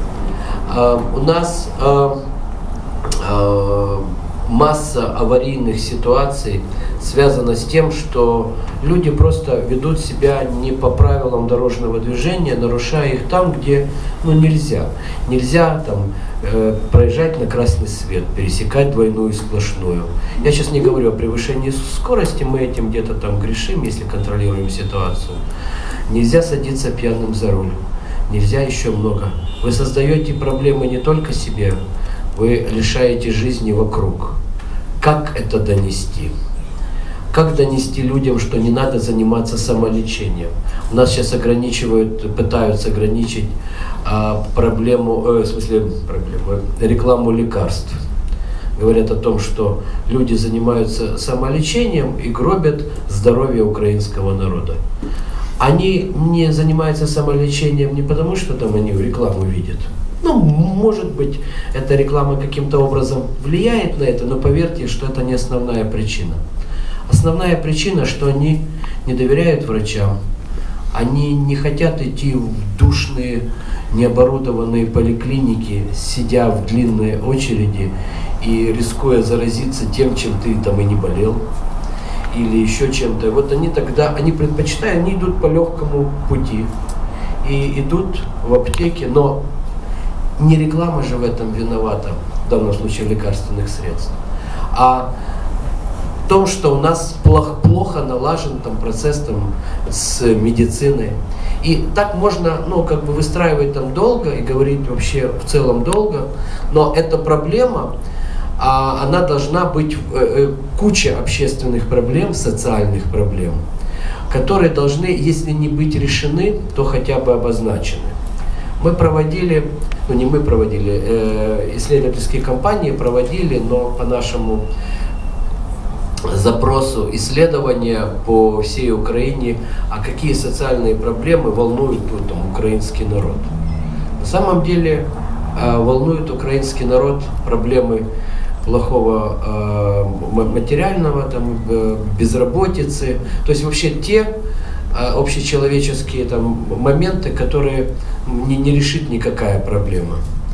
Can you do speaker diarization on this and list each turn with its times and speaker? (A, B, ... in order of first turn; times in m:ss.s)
0:00.6-0:02.2 A
0:03.0-0:25.4 A
0:26.1-0:31.8 A
0:32.3-0:34.4 A
0:35.0-0:36.3 A
0:37.3-0:43.5 A
0:44.0-0:48.0 A
0:48.8-0:54.8 A
0:55.6-1:06.4 A
1:07.1-1:10.1 A
1:10.9-1:21.4 A
1:22.3-1:26.7 A
1:27.4-1:29.4 A
1:30.4-1:34.2 A
1:34.7-1:35.1 A
1:36.2-1:47.9 A
1:48.6-1:53.6 A
1:54.3-1:58.1 A
1:58.8-2:04.6 A
2:06.3-2:13.5 A
2:14.2-2:18.0 A
2:18.6-2:24.3 A
2:24.9-2:30.2 A